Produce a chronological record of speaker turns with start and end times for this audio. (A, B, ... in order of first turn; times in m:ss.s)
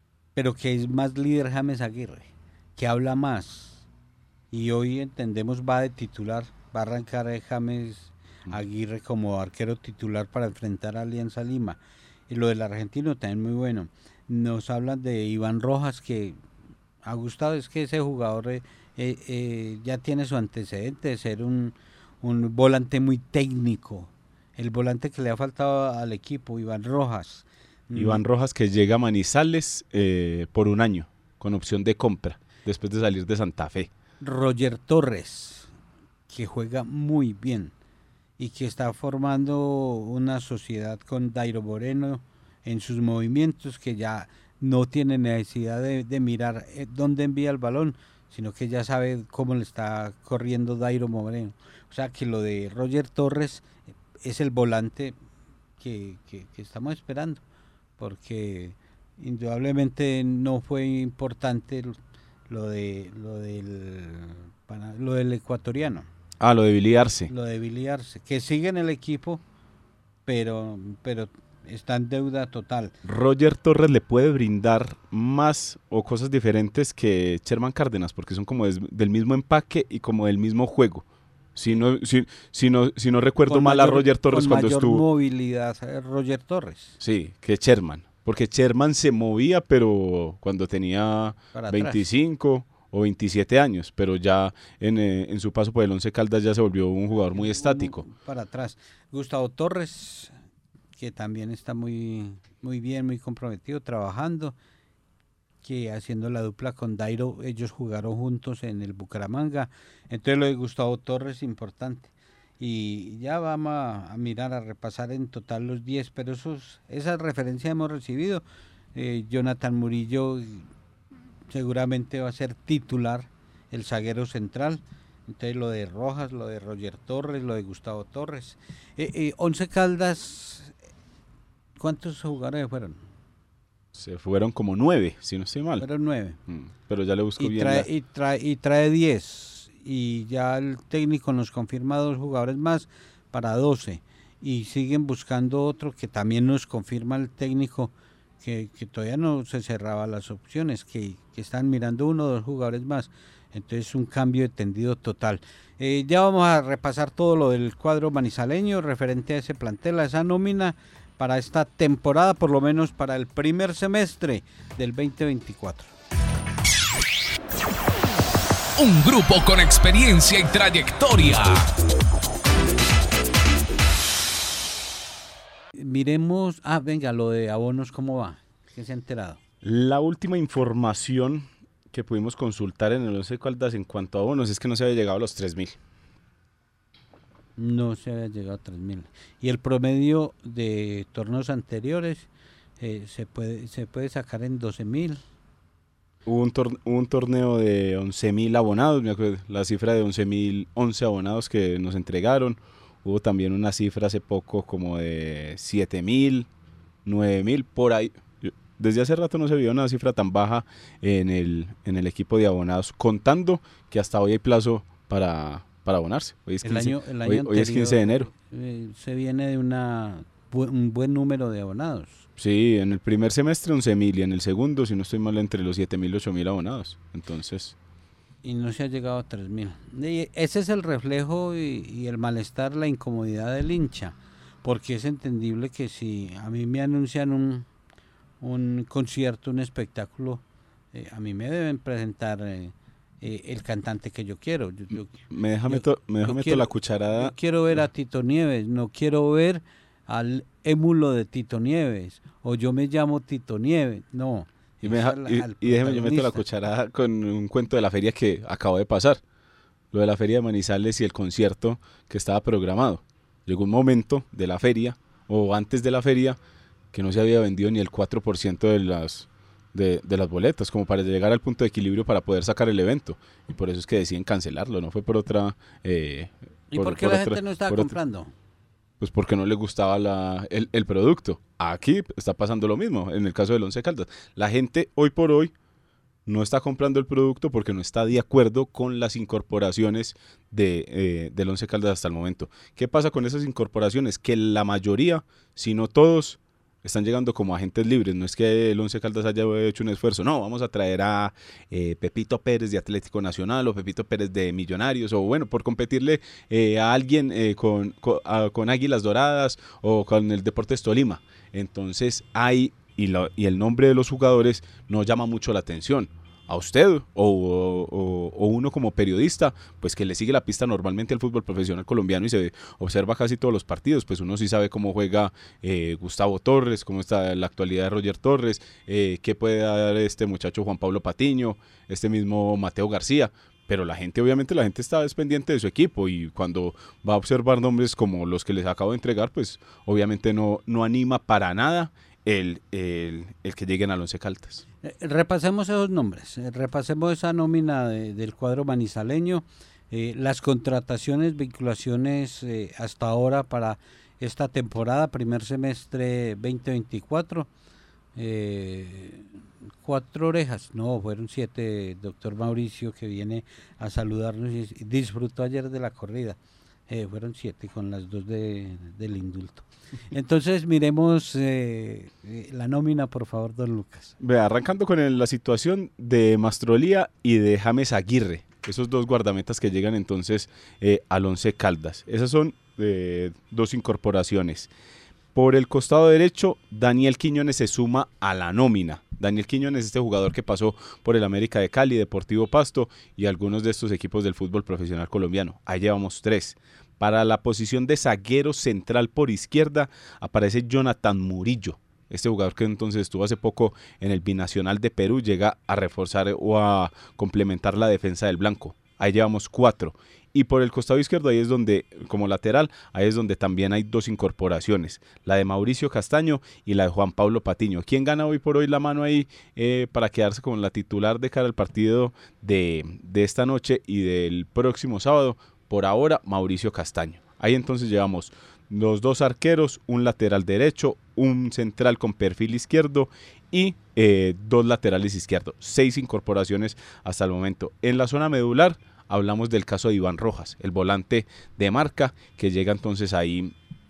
0:00.3-0:03.8 A
0:04.5-0:16.4 A
0:17.0-0:28.2 A
0:27.9-0:33.9 B
0:34.2-0:35.7 A
0:36.3-0:37.7 A
0:38.4-0:53.7 A
0:54.2-0:55.2 A
0:55.8-0:57.4 A
0:58.0-1:01.9 A
1:02.5-1:06.1 A
1:06.4-1:07.3 B
1:07.3-1:09.4 A
1:10.2-1:13.0 A
1:13.0-1:25.0 B
1:23.5-1:27.0 A
1:27.0-1:38.0 B
1:31.5-1:32.0 A
1:37.3-1:40.3 A
1:41.0-1:44.6 A
1:45.6-1:58.4 A
1:58.9-2:00.7 A
2:01.5-2:10.7 A
2:11.8-2:13.0 A
2:13.9-2:15.8 B
2:15.8-2:16.4 A
2:16.5-2:17.9 B
2:17.4-2:45.9 A
2:48.8-2:51.7 C
2:55.7-2:59.4 A
2:59.6-3:05.8 B
3:07.6-3:12.3 A
3:12.8-3:15.2 A
3:16.2-3:26.5 B
3:27.0-3:38.3 B
3:36.6-3:42.2 A
3:42.4-3:47.7 B
3:48.4-3:57.7 A
3:58.4-4:00.4 A
4:00.9-4:16.4 A
4:05.3-4:07.3 B
4:14.8-4:19.2 B
4:19.9-4:26.4 B
4:26.9-4:37.9 B
4:36.7-4:38.3 A
4:39.0-4:45.5 B
4:46.2-5:44.6 B
5:44.8-5:57.5 A
5:58.2-5:59.2 A
5:59.8-6:14.1 A
6:14.2-6:24.7 B
6:25.3-7:23.5 B